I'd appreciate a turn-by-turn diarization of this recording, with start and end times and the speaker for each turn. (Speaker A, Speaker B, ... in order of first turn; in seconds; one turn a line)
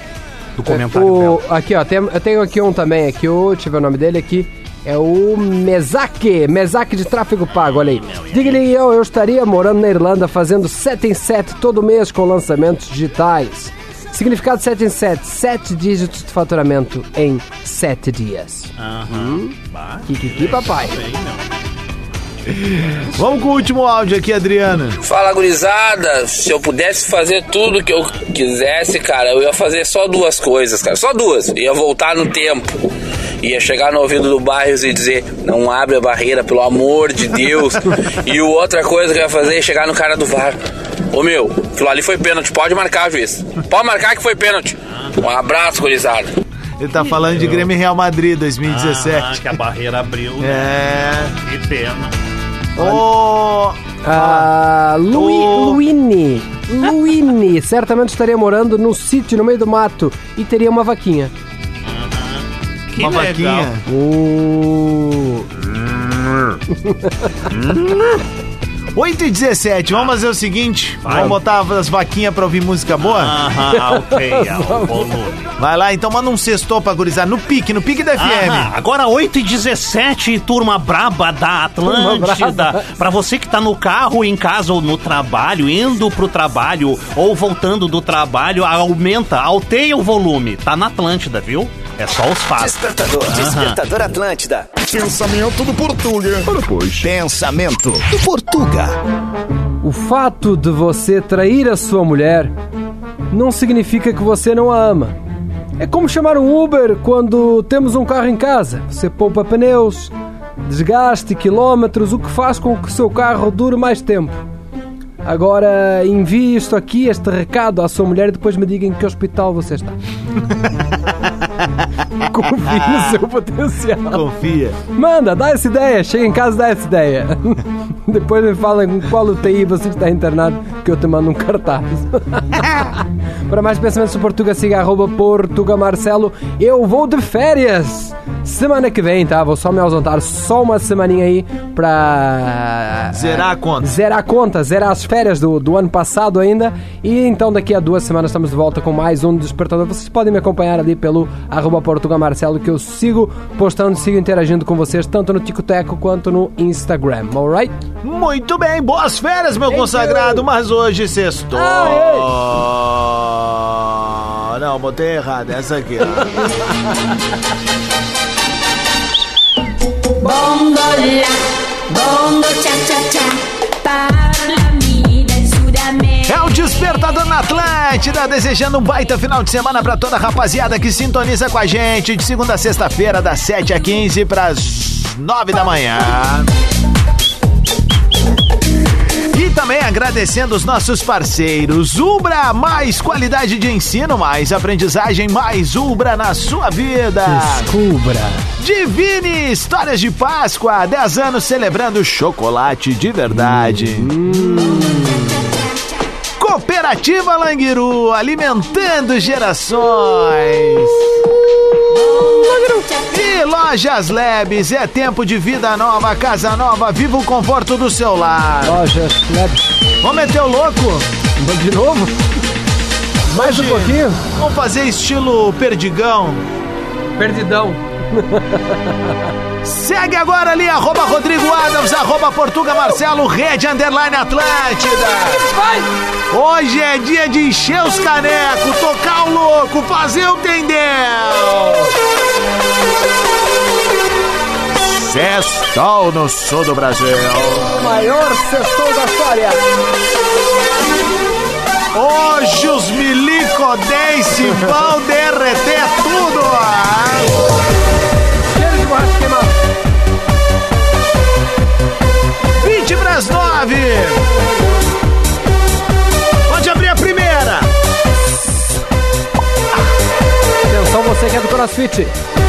Speaker A: 0.6-1.4
Speaker B: 0.6-19.5
Speaker A: 7.5-8.7
Speaker A: 18.8-21.5
Speaker B: 20.1-21.0
Speaker C: 22.5-25.0
Speaker D: 25.0-32.8
Speaker D: 33.4-40.6
Speaker D: 41.1-46.3
Speaker C: 46.8-49.5
Speaker A: 47.2-47.7
Speaker A: 48.6-52.1
Speaker C: 50.4-51.3
Speaker B: 52.8-53.0
Speaker C: 52.8-54.5
Speaker B: 54.0-61.3
Speaker C: 55.1-55.8
Speaker A: 61.9-63.7
Speaker C: 62.9-63.8
Speaker B: 63.9-65.5
Speaker C: 67.5-68.2
Speaker C: 68.9-73.4
Speaker A: 71.0-71.4
Speaker B: 71.1-71.3
Speaker A: 73.0-75.4
Speaker B: 73.7-75.1
Speaker C: 75.6-78.7
Speaker A: 78.2-93.8
Speaker B: 81.8-82.9
Speaker E: 92.6-99.0
Speaker B: 99.8-102.5
Speaker B: 103.3-105.1
Speaker B: 105.8-110.1
Speaker B: 110.6-114.4
Speaker B: 115.2-120.0
Speaker B: 122.2-124.2
Speaker C: 124.1-124.8
Speaker B: 124.9-132.9
Speaker B: 133.5-157.8
Speaker C: 143.1-143.9
Speaker C: 158.0-166.6
Speaker B: 159.7-160.4
Speaker B: 161.5-162.3
Speaker F: 170.2-171.3
Speaker F: 171.9-176.1
Speaker C: 176.2-186.5
Speaker C: 189.3-197.7
Speaker B: 197.3-198.4
Speaker C: 198.6-205.4
Speaker B: 203.3-205.4
Speaker C: 206.4-211.1
Speaker B: 212.2-212.9
Speaker C: 213.1-218.8
Speaker B: 218.6-219.6
Speaker C: 220.0-221.1
Speaker B: 221.4-222.2
Speaker B: 223.3-224.2
Speaker C: 223.3-226.4
Speaker B: 227.2-229.2
Speaker C: 229.6-235.5
Speaker B: 235.5-235.9
Speaker C: 236.3-241.9
Speaker C: 244.9-247.8
Speaker B: 247.7-249.6
Speaker C: 251.9-257.4
Speaker B: 258.5-259.6
Speaker C: 262.6-264.3
Speaker C: 266.5-267.7
Speaker B: 270.7-272.1